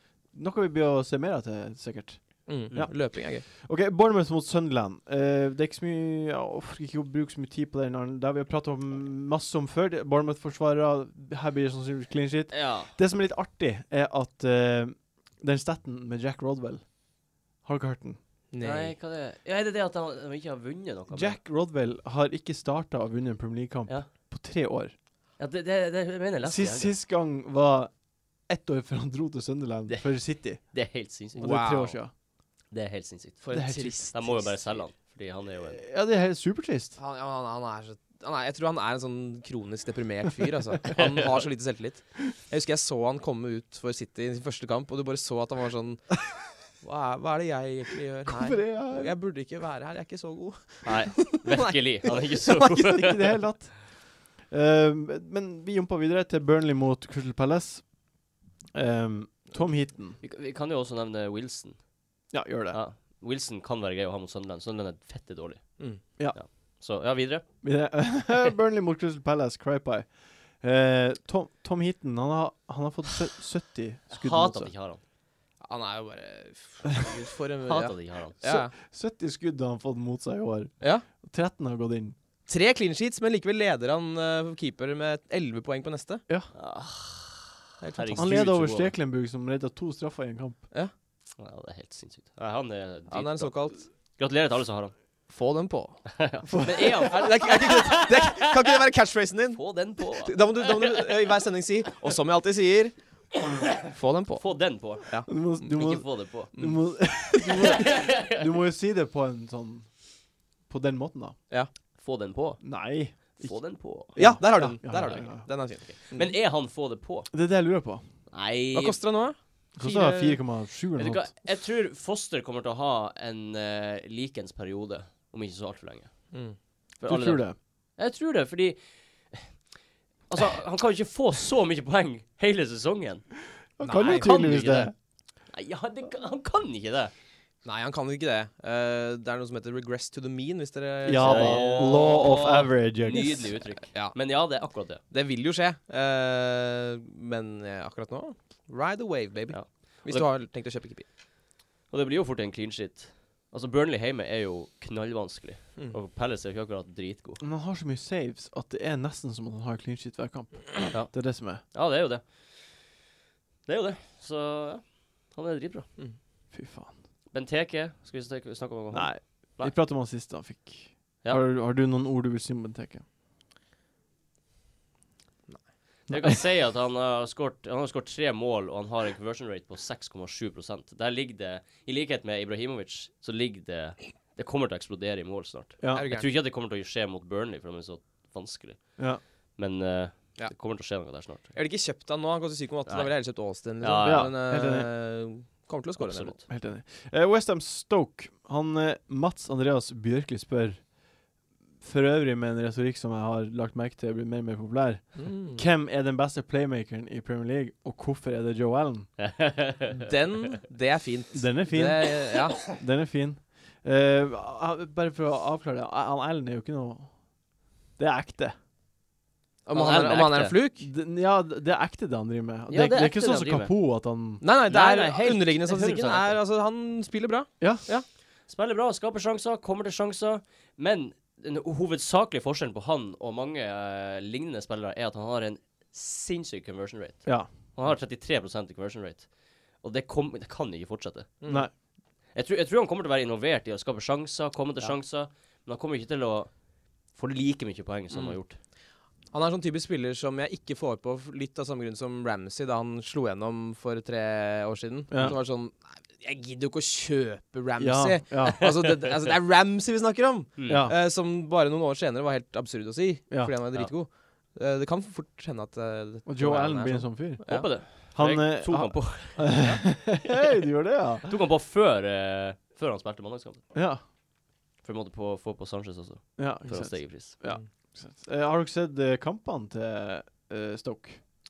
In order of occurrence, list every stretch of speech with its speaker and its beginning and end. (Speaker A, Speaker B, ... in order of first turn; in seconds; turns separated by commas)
Speaker A: 0.3-16.9, Speaker B: 2.5-3.4, Speaker C: 12.5-12.9, Speaker A: 17.6-18.2, Speaker B: 18.5-18.9, Speaker C: 18.6-21.4, Speaker A: 21.1-24.9, Speaker C: 25.4-26.9, Speaker A: 26.4-30.8, Speaker C: 29.9-31.6, Speaker A: 31.3-32.1, Speaker B: 31.4-32.0, Speaker C: 32.7-33.5, Speaker B: 33.4-34.8, Speaker A: 33.5-34.2, Speaker C: 34.1-35.8, Speaker A: 35.7-37.0, Speaker B: 37.0-46.2, Speaker B: 46.8-53.2, Speaker A: 48.2-49.1, Speaker C: 50.8-53.2, Speaker A: 52.8-57.9, Speaker A: 58.7-60.2, Speaker C: 60.2-61.8, Speaker A: 62.3-62.8, Speaker C: 62.7-67.5, Speaker A: 67.6-74.7, Speaker C: 74.1-75.0, Speaker B: 75.6-78.7, Speaker C: 77.6-78.4, Speaker A: 78.4-82.2, Speaker B: 82.5-86.2, Speaker C: 86.5-88.9, Speaker B: 87.8-88.5, Speaker A: 88.1-90.7, Speaker C: 91.4-94.9, Speaker B: 93.1-93.8, Speaker B: 95.3-96.1, Speaker C: 96.1-98.7, Speaker A: 96.5-97.1, Speaker B: 96.9-103.0, Speaker C: 99.5-101.1, Speaker B: 103.9-105.3, Speaker C: 104.3-106.5, Speaker A: 105.3-110.1, Speaker B: 106.5-106.8, Speaker C: 107.4-108.4, Speaker A: 110.7-111.4, Speaker C: 112.0-117.3, Speaker A: 112.6-115.5, Speaker B: 114.2-116.3, Speaker A: 117.3-118.0, Speaker C: 118.3-119.0, Speaker B: 118.7-120.4, Speaker A: 119.8-121.3, Speaker C: 121.0-126.4, Speaker B: 126.3-126.6, Speaker A: 127.0-127.5, Speaker C: 127.0-129.6, Speaker C: 130.3-133.3, Speaker A: 133.8-134.9, Speaker B: 133.8-134.4, Speaker C: 134.0-134.9, Speaker C: 135.4-137.1, Speaker B: 137.6-142.1, Speaker A: 141.0-143.6, Speaker C: 141.2-145.0, Speaker B: 143.9-151.1, Speaker C: 149.5-150.4, Speaker C: 151.9-157.4, Speaker A: 157.4-161.6, Speaker C: 160.9-162.6, Speaker C: 163.7-165.9, Speaker A: 166.5-166.9, Speaker C: 167.3-169.7, Speaker A: 168.9-173.0, Speaker A: 176.1-176.4, Speaker C: 176.1-191.6, Speaker A: 185.8-186.1, Speaker B: 185.9-186.3, Speaker A: 189.0-189.2, Speaker B: 191.4-196.4, Speaker C: 192.8-194.3, Speaker A: 194.0-194.9, Speaker C: 196.0-196.4, Speaker A: 196.5-200.9, Speaker A: 201.8-209.1, Speaker B: 205.2-205.6, Speaker C: 209.2-210.1, Speaker B: 210.0-212.6, Speaker A: 211.3-217.2, Speaker A: 218.0-218.5, Speaker B: 219.7-220.9, Speaker C: 219.7-220.6, Speaker A: 220.8-224.4, Speaker C: 222.7-223.7, Speaker B: 224.4-228.1, Speaker C: 224.7-226.4, Speaker A: 227.6-227.9, Speaker C: 228.4-241.4, Speaker A: 237.2-237.5, Speaker B: 241.4-241.7, Speaker A: 241.5-241.7, Speaker C: 242.3-246.5, Speaker C: 247.1-248.6, Speaker B: 248.1-248.4, Speaker B: 249.3-267.7, Speaker A: 255.1-255.4, Speaker A: 257.8-258.7, Speaker C: 260.6-260.9, Speaker A: 260.7-260.9, Speaker A: 263.3-263.5, Speaker A: 266.2-271.3, Speaker C: 267.4-270.4, Speaker C: 271.2-273.6, Speaker A: 273.7-274.0, Speaker C: 274.8-277.3, Speaker A: 276.4-281.3